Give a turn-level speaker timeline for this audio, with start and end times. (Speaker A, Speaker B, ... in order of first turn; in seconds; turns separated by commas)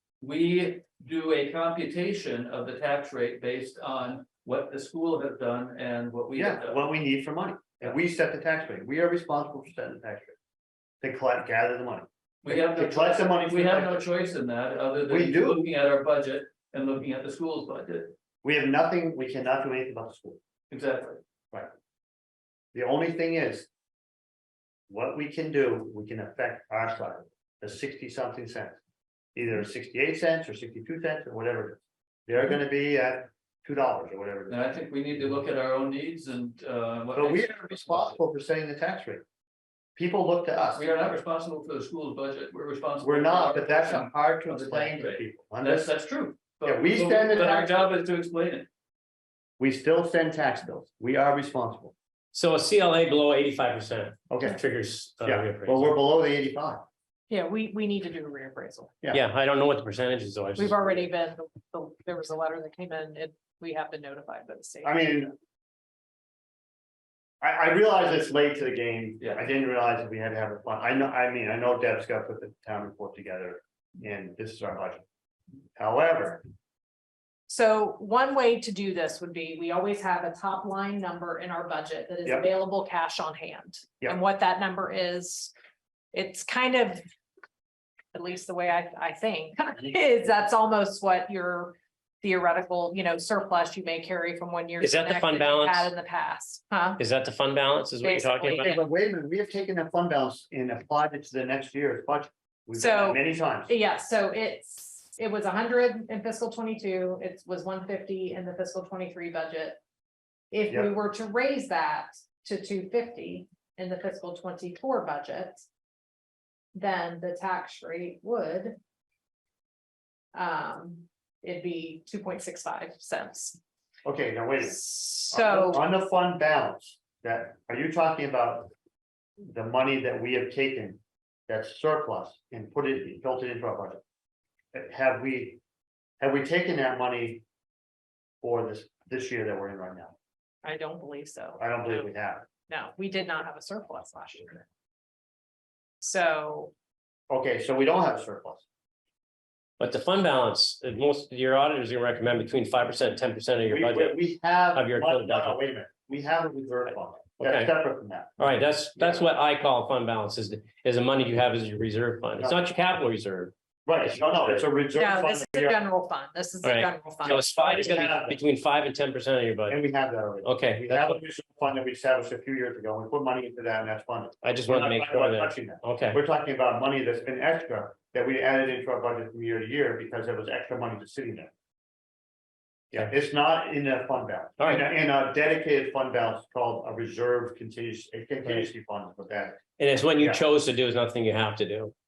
Speaker A: 0.2-6.9, Speaker B: 6.3-10.3, Speaker B: 11.0-14.1, Speaker A: 12.4-18.1, Speaker B: 15.1-15.6, Speaker B: 18.4-20.4, Speaker A: 20.7-21.2, Speaker B: 22.7-23.7, Speaker B: 24.9-28.8, Speaker B: 29.4-34.6, Speaker A: 34.5-38.2, Speaker B: 37.1-39.2, Speaker B: 40.0-40.8, Speaker A: 40.7-48.7, Speaker B: 43.0-45.9, Speaker B: 46.6-47.9, Speaker B: 49.6-51.9, Speaker C: 52.3-56.0, Speaker B: 54.3-54.6, Speaker B: 55.2-56.8, Speaker D: 57.3-58.9, Speaker C: 59.1-60.7, Speaker D: 60.5-65.0, Speaker B: 64.8-65.3, Speaker B: 67.4-75.0, Speaker B: 75.8-76.4, Speaker D: 77.5-85.5, Speaker D: 86.1-87.0, Speaker D: 88.1-97.0, Speaker C: 94.8-95.9, Speaker C: 97.0-98.8, Speaker D: 98.0-98.8, Speaker B: 98.6-103.7, Speaker D: 102.7-109.8, Speaker D: 110.5-115.7, Speaker D: 116.7-118.8, Speaker D: 120.3-123.6, Speaker B: 124.0-128.7, Speaker D: 124.6-125.8, Speaker B: 129.4-134.0, Speaker B: 134.7-135.6, Speaker B: 136.2-137.4, Speaker B: 138.4-140.1, Speaker D: 140.6-142.1, Speaker B: 141.6-142.5, Speaker D: 142.7-144.7, Speaker D: 146.0-146.7, Speaker B: 147.3-148.6, Speaker C: 149.8-154.2, Speaker B: 153.7-159.2, Speaker C: 154.7-155.6, Speaker C: 157.4-157.7, Speaker C: 158.4-164.7, Speaker B: 162.4-162.6, Speaker B: 163.8-165.8, Speaker D: 164.9-168.0, Speaker C: 166.6-169.8, Speaker B: 167.2-168.4, Speaker B: 169.7-181.5, Speaker C: 170.4-171.2, Speaker C: 174.4-176.2, Speaker B: 182.9-189.6, Speaker C: 184.6-184.8, Speaker C: 189.8-191.9, Speaker B: 190.2-190.4